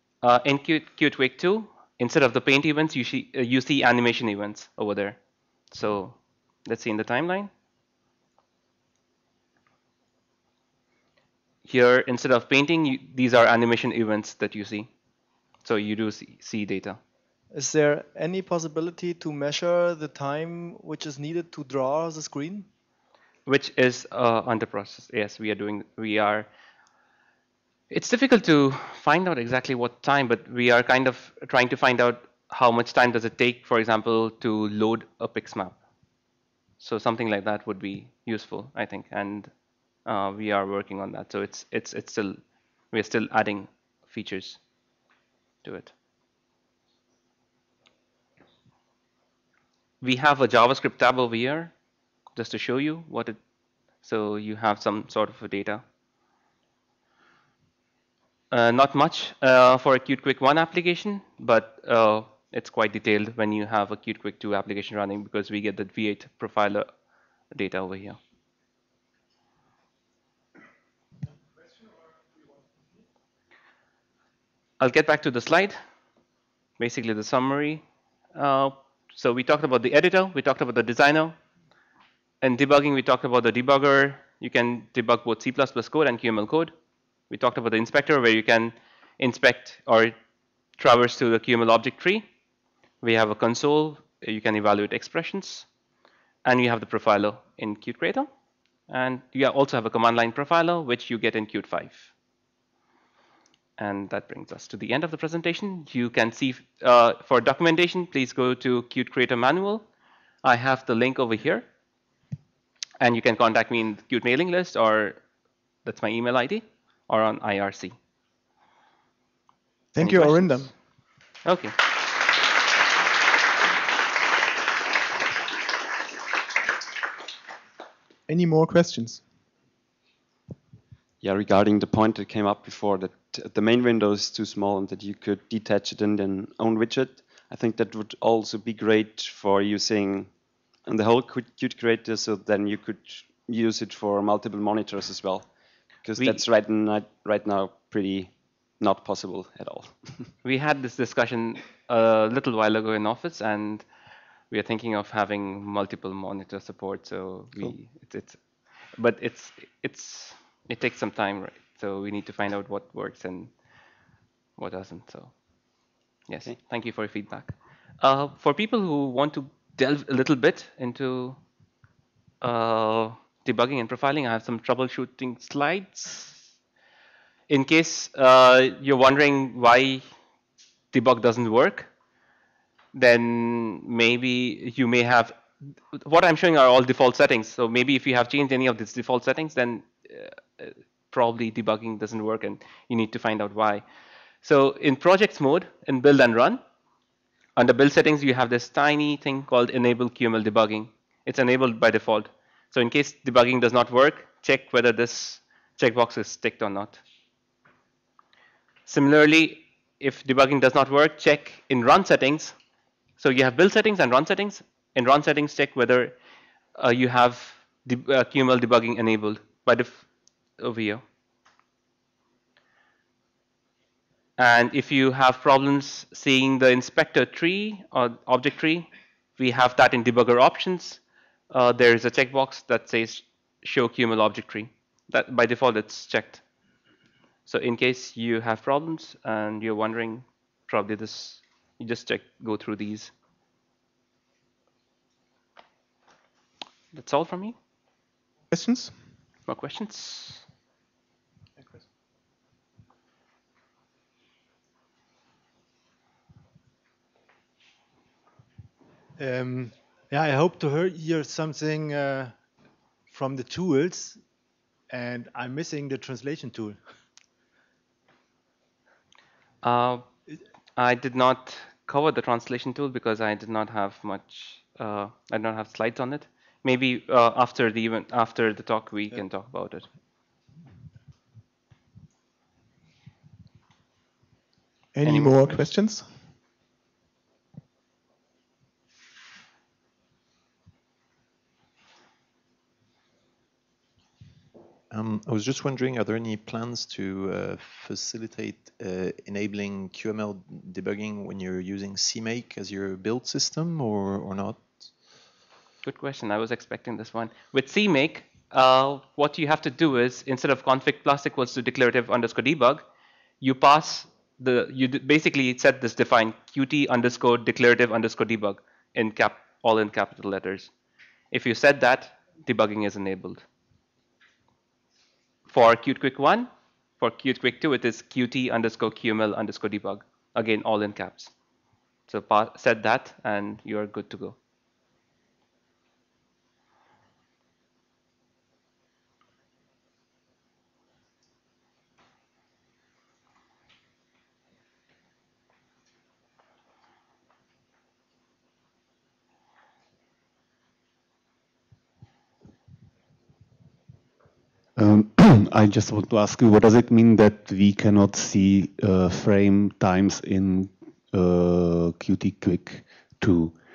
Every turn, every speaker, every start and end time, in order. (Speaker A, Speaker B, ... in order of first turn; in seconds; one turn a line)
Speaker A: 0.2-5.2
Speaker A: 5.7-7.5
Speaker A: 11.7-14.9
Speaker A: 15.6-17.0
Speaker B: 17.5-22.7
Speaker A: 23.5-26.5
Speaker A: 27.9-35.8
Speaker A: 36.8-39.5
Speaker A: 40.0-42.4
Speaker A: 42.9-44.6
Speaker A: 45.6-45.9
Speaker A: 50.0-51.7
Speaker A: 52.4-53.4
Speaker A: 54.0-55.8
Speaker A: 58.5-66.9
Speaker A: 67.5-68.2
Speaker A: 74.8-75.8
Speaker A: 76.8-77.8
Speaker A: 78.3-81.4
Speaker A: 82.4-86.7
Speaker A: 87.3-90.2
Speaker A: 90.8-92.3
Speaker A: 93.0-95.7
Speaker A: 96.5-98.3
Speaker A: 98.9-102.1
Speaker A: 103.8-109.9
Speaker A: 110.4-111.7
Speaker A: 113.0-115.2
Speaker A: 115.8-118.0
Speaker C: 119.9-120.7
Speaker A: 120.0-120.7
Speaker A: 121.5-121.8
Speaker C: 128.3-129.2
Speaker D: 131.2-150.3
Speaker A: 146.2-146.4
Speaker A: 150.4-153.9
Speaker A: 154.5-163.5
Speaker A: 164.6-165.4
Speaker A: 166.3-171.4
Speaker A: 172.4-176.5
Speaker A: 177.5-180.0
Speaker A: 180.9-181.9
Speaker A: 182.9-185.4
Speaker A: 185.9-193.8
Speaker A: 194.4-196.6
Speaker A: 197.6-207.0
Speaker A: 208.9-212.6
Speaker A: 213.2-216.2
Speaker A: 216.8-220.1
Speaker A: 220.6-221.0
Speaker A: 224.4-236.4
Speaker A: 237.5-243.1
Speaker A: 246.9-247.6
Speaker C: 248.5-248.9
Speaker A: 249.5-250.5
Speaker C: 251.6-251.8
Speaker E: 259.2-262.3
Speaker E: 263.1-264.2
Speaker E: 264.9-266.8
Speaker A: 269.6-270.1
Speaker A: 270.8-279.9
Speaker C: 284.9-286.1
Speaker A: 285.1-285.7
Speaker F: 294.9-305.1
Speaker A: 305.8-312.9
Speaker A: 313.4-320.7
Speaker A: 321.3-323.4
Speaker A: 325.5-331.3
Speaker A: 332.1-334.4
Speaker G: 354.8-363.6